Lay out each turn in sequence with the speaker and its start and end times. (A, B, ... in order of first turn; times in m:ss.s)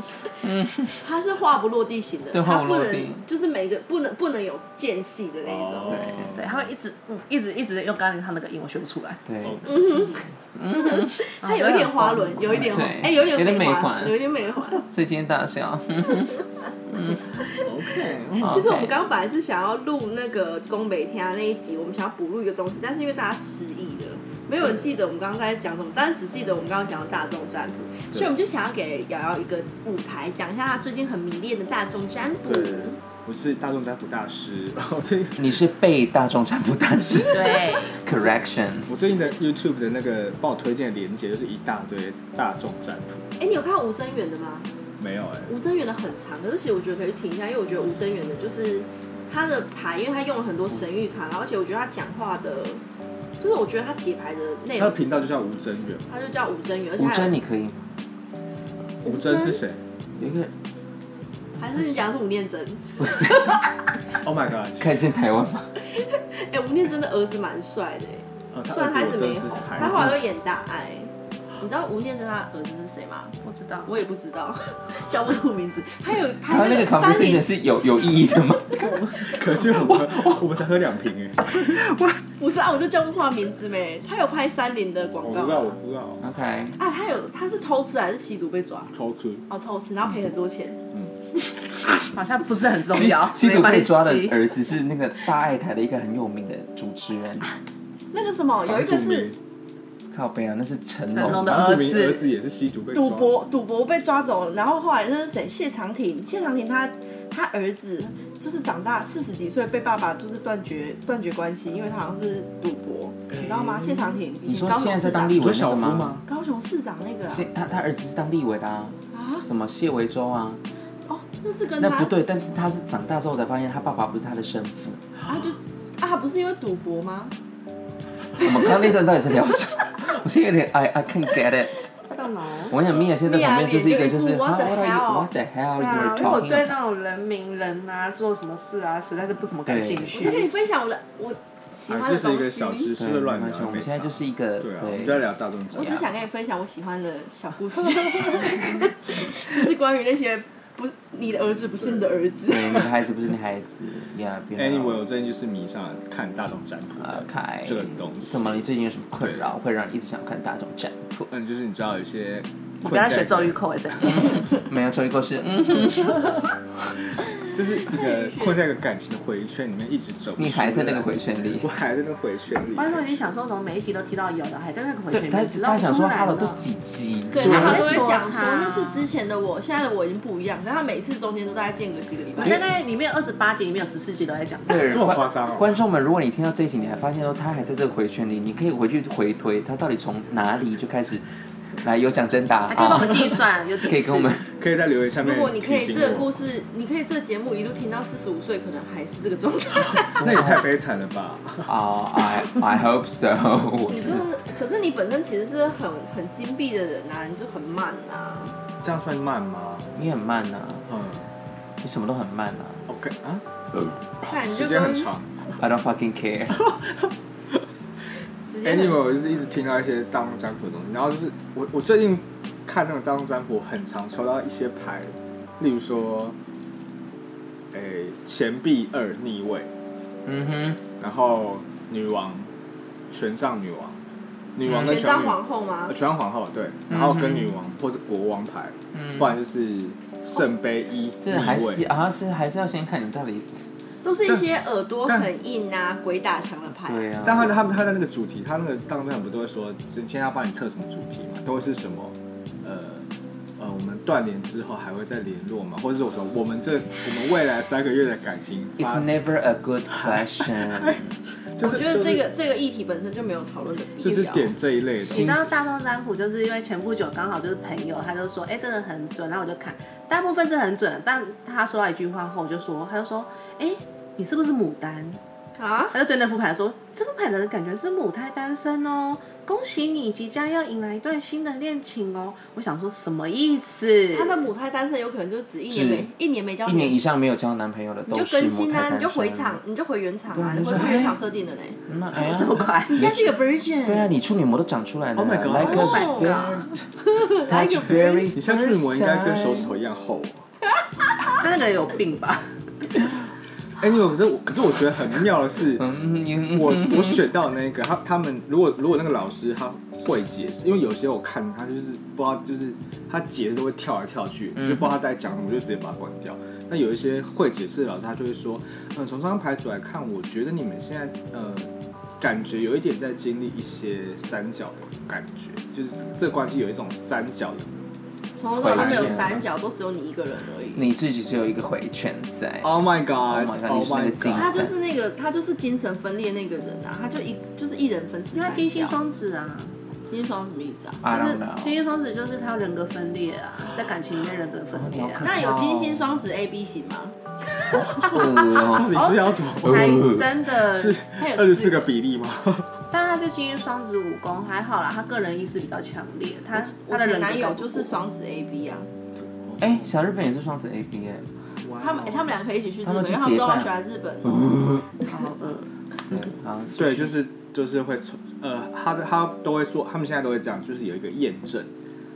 0:00.3-0:01.0 A
0:01.0-0:06.0 B
0:02.3-0:03.2 A
0:05.4-0:06.6 C
0:05.9-0:06.4 A
0:06.3-0:09.2 D
0:09.3-0:09.6 A
0:09.4-0:09.8 C
0:09.6-0:10.2 B
0:10.4-0:11.2 A
0:10.7-0:14.8 B
0:11.4-0:12.9 D
0:12.5-0:14.2 A
0:14.7-0:17.4 A
0:17.6-0:18.5 C
0:18.4-0:18.9 A
0:18.4-0:33.0 B
0:24.6-0:24.9 C
0:32.4-0:35.5 C
0:35.4-0:38.9 A
0:37.3-0:38.0 D
0:38.9-0:43.2 C
0:43.4-0:44.7 B
0:45.0-0:45.5 C
0:45.5-0:52.8 B
0:53.4-0:55.3 B
0:54.8-0:56.1 C
0:56.1-0:57.4 B
0:57.0-0:57.8 A
0:59.0-0:59.8 C
0:59.0-0:59.6 B
1:00.2-1:00.5 A
1:01.6-1:03.6 B
1:03.0-1:03.5 A
1:04.1-1:05.0 C
1:04.8-1:05.7 A
1:05.8-1:13.3 B
1:08.5-1:10.2 C
1:09.8-1:10.2 A
1:13.4-1:13.9 D
1:13.8-1:17.4 B
1:16.5-1:19.0 A
1:18.8-1:22.2 C
1:18.8-1:19.4 B
1:22.4-1:25.8 B
1:25.2-1:26.2 C
1:26.2-1:26.8 A
1:26.8-1:28.9 B
1:28.9-1:29.4 C
1:29.5-1:30.8 B
1:30.9-1:31.2 C
1:32.1-1:34.4 D
1:32.9-1:37.5 A
1:38.1-1:39.3 B
1:38.6-1:39.4 C
1:40.1-1:41.6 A
1:41.1-1:42.3 D
1:41.3-1:43.3 C
1:42.9-1:55.4 B
1:53.3-1:54.0 C
1:54.5-1:56.2 A
1:55.4-1:56.2 C
1:56.3-1:57.5 B
1:57.3-2:00.6 A
1:59.1-1:59.4 B
2:01.1-2:02.1 B
2:01.8-2:05.0 A
2:05.2-2:05.6 C
2:05.3-2:07.3 B
2:08.4-2:11.9 A
2:12.1-2:12.8 D
2:12.7-2:16.8 A
2:12.8-2:13.2 C
2:13.2-2:15.3 B
2:15.8-2:20.5 D
2:15.8-2:16.2 B
2:19.6-2:20.4 A
2:20.1-2:22.9 B
2:21.9-2:26.0 C
2:23.0-2:26.1 A
2:25.7-2:32.9 B
2:32.5-2:35.0 A
2:34.6-2:38.6 C
2:37.0-2:41.3 A
2:39.2-2:39.5 C
2:41.3-2:44.3 C
2:42.8-2:44.5 D
2:44.0-2:46.6 A
2:47.4-2:53.3 C
2:47.8-2:48.6 B
2:50.4-2:51.7 A
2:52.8-2:56.6 D
2:55.1-2:58.2 A
2:57.3-3:02.6 B
2:57.4-2:59.1 D
3:02.4-3:05.2 D
3:04.7-3:11.2 A
3:04.8-3:05.7 C
3:11.8-3:14.5 A
3:12.7-3:14.4 D
3:14.5-3:16.4 C
3:15.2-3:20.3 B
3:19.8-3:22.6 C
3:20.2-3:20.6 A
3:21.7-3:24.3 A
3:23.9-3:28.6 B
3:28.8-3:30.0 C
3:30.0-3:30.9 A
3:30.9-3:31.3 C
3:31.8-3:32.9 A
3:32.9-3:35.5 C
3:34.3-3:35.1 B
3:35.5-3:36.6 A
3:36.5-3:37.6 C
3:38.5-3:39.0 B
3:38.6-3:46.4 C
3:47.7-3:49.7 C
3:50.3-3:50.8 A
3:51.0-3:52.5 C
3:53.1-3:54.0 C
3:54.6-4:01.8 C
3:54.7-3:55.0 A
3:54.7-3:56.0 B
3:56.9-3:57.5 A
3:59.0-3:59.4 A
4:01.2-4:03.7 A
4:04.0-4:07.2 B
4:06.8-4:07.6 A
4:07.2-4:13.1 C
4:13.6-4:19.1 C
4:18.8-4:21.2 A
4:20.0-4:21.0 C
4:21.5-4:22.3 C
4:21.6-4:24.5 B
4:24.0-4:25.5 C
4:25.0-4:35.2 D
4:35.6-4:36.0 B
4:35.9-4:44.4 D
4:44.1-4:47.0 B
4:45.7-4:46.1 A
4:46.6-4:49.6 A
4:48.1-4:51.8 B
4:50.4-4:51.2 A
4:51.9-4:56.7 A
4:52.1-4:53.1 D
4:52.9-4:54.1 B
4:55.2-4:56.3 C
4:55.6-4:56.8 D
4:55.7-4:56.5 B
4:57.0-4:58.4 B
4:57.4-4:59.7 A
4:58.3-5:00.4 C
5:00.8-5:01.3 B
5:01.3-5:02.6 D
5:03.8-5:27.8 C
5:05.8-5:07.3 A
5:14.6-5:14.9 A
5:28.4-5:30.9 B
5:28.6-5:29.4 A
5:28.6-5:29.4 C
5:30.8-5:34.7 A
5:32.6-5:34.7 C
5:34.4-5:39.0 B
5:38.3-5:39.8 D
5:40.1-5:41.0 B
5:41.0-5:41.8 A
5:41.1-5:45.4 D
5:44.7-5:46.2 A
5:45.2-5:47.2 B
5:47.7-5:50.1 C
5:48.0-5:51.0 D
5:48.0-5:49.0 A
5:49.6-5:50.3 A
5:50.6-5:52.8 C
5:51.2-5:51.9 B
5:52.9-5:58.0 D
5:56.6-5:58.9 B
5:59.4-5:59.9 C
5:59.6-6:01.3 A
6:01.6-6:02.4 C
6:01.8-6:04.4 B
6:02.8-6:03.7 A
6:04.2-6:04.9 A
6:05.1-6:05.7 D
6:06.1-6:07.2 A
6:06.8-6:11.7 C